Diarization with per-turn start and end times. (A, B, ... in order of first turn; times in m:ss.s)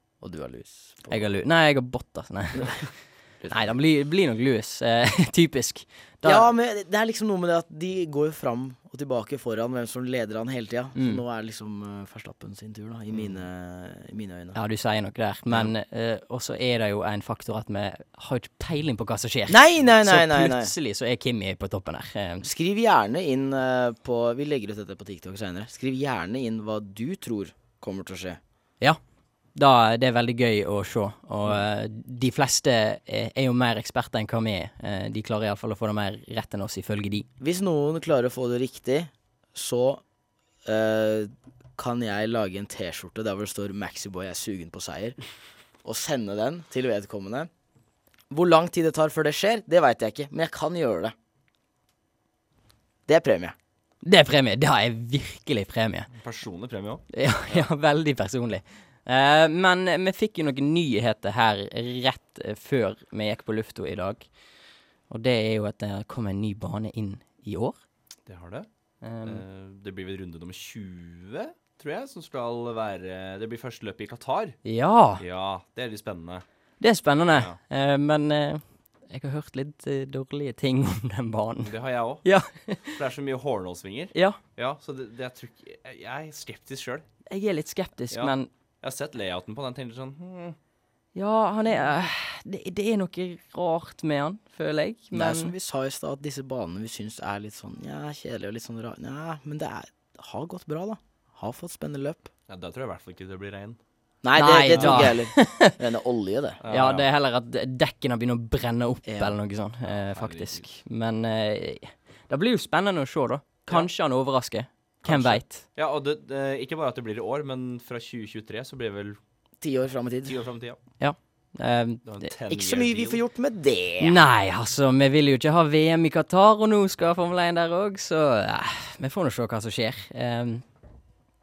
0:00.2-0:01.3 A
0:01.1-0:06.5 B
0:03.4-0:03.8 A
0:06.2-0:14.6 A
0:11.0-0:11.2 B
0:14.5-0:22.4 B
0:19.5-0:20.7 A
0:22.4-0:28.4 A
0:29.5-0:37.3 B
0:37.4-0:40.0 A
0:40.6-0:45.2 A
0:45.8-0:47.5 A
0:48.3-0:51.1 A
0:53.1-0:53.5 A
0:54.0-0:56.1 B
0:56.1-0:57.0 C
0:57.1-1:04.4 B
1:05.1-1:07.8 B
1:08.2-1:14.6 C
1:09.0-1:09.4 B
1:14.6-1:15.2 B
1:15.2-1:16.4 C
1:16.8-1:23.0 B
1:17.3-1:17.6 C
1:21.6-1:27.1 C
1:24.1-1:24.4 B
1:27.3-1:28.5 B
1:28.1-1:30.6 C
1:31.1-1:35.5 B
1:35.1-1:42.3 A
1:42.5-1:43.8 C
1:44.2-1:46.6 A
1:44.4-1:45.7 B
1:44.7-1:45.1 C
1:46.6-1:47.1 C
1:46.7-1:55.6 B
1:49.0-1:49.4 A
1:49.8-1:50.7 C
1:55.0-1:55.4 A
1:55.7-1:59.2 C
1:59.6-2:00.4 A
2:00.2-2:00.8 C
2:01.0-2:02.2 B
2:02.0-2:03.2 C
2:02.5-2:04.2 A
2:04.0-2:10.6 B